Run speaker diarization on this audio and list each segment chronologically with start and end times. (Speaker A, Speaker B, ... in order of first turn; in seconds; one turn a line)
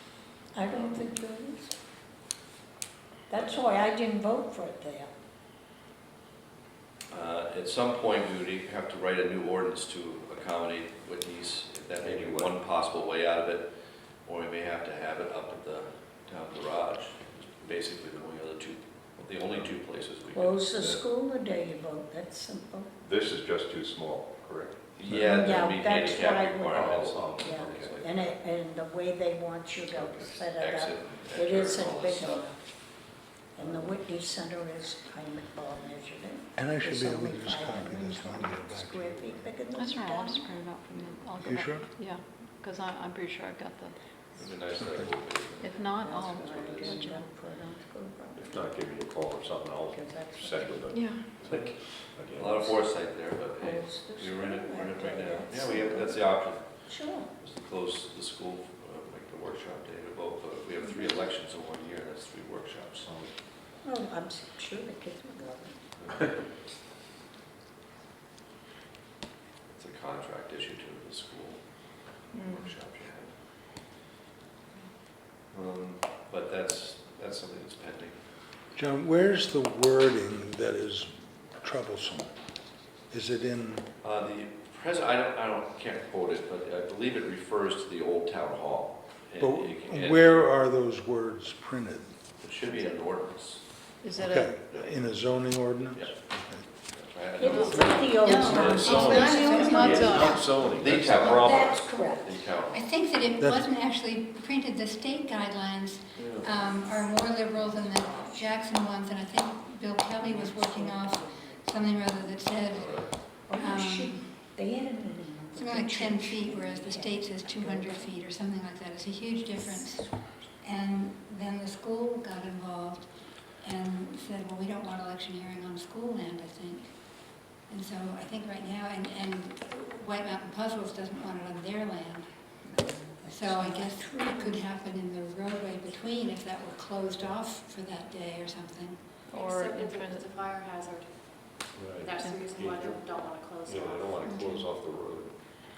Speaker A: 0.5-1.7
Speaker B: 0.6-1.1
Speaker A: 3.3-5.1
Speaker B: 3.3-3.6
Speaker B: 7.1-13.7
Speaker C: 12.0-12.5
Speaker B: 14.2-20.6
Speaker A: 20.3-22.9
Speaker C: 20.8-21.0
Speaker C: 23.0-25.3
Speaker B: 25.0-28.4
Speaker A: 25.2-32.6
Speaker C: 26.7-27.8
Speaker C: 29.9-30.3
Speaker B: 30.5-32.5
Speaker A: 33.5-40.5
Speaker C: 33.6-33.9
Speaker D: 36.5-39.5
Speaker E: 39.7-44.0
Speaker D: 41.4-41.9
Speaker B: 44.4-47.2
Speaker E: 45.6-47.2
Speaker A: 45.9-48.6
Speaker C: 48.3-52.6
Speaker A: 49.9-50.8
Speaker E: 50.9-51.3
Speaker B: 52.3-56.6
Speaker A: 53.5-56.2
Speaker A: 56.9-57.3
Speaker B: 57.4-63.1
Speaker A: 63.8-65.8
Speaker B: 69.7-71.6
Speaker E: 72.3-72.7
Speaker B: 72.5-73.3
Speaker B: 75.5-78.1
Speaker D: 78.7-82.3
Speaker D: 83.1-83.8
Speaker B: 84.0-90.4
Speaker D: 89.4-92.1
Speaker B: 92.4-93.6
Speaker E: 94.0-94.5
Speaker D: 94.2-96.6
Speaker B: 94.7-95.1
Speaker B: 96.9-98.9
Speaker A: 97.4-100.3
Speaker E: 97.4-100.5
Speaker F: 98.2-100.5
Speaker C: 98.4-101.7
Speaker B: 100.6-102.8
Speaker A: 101.2-102.4
Speaker F: 102.7-114.3
Speaker D: 103.4-103.7
Speaker A: 107.5-108.5
Speaker A: 110.2-112.3
Speaker B: 112.7-113.2
Speaker A: 113.3-118.1
Speaker F: 115.5-132.2
Speaker A: 132.7-134.4
Speaker F: 133.3-139.0
Speaker G: 139.3-141.1
Speaker E: 139.3-140.3
Speaker C: 141.8-143.0
Speaker G: 141.9-144.3
Speaker E: 142.2-142.4
Speaker C: 143.7-145.3
Speaker F: 144.2-144.7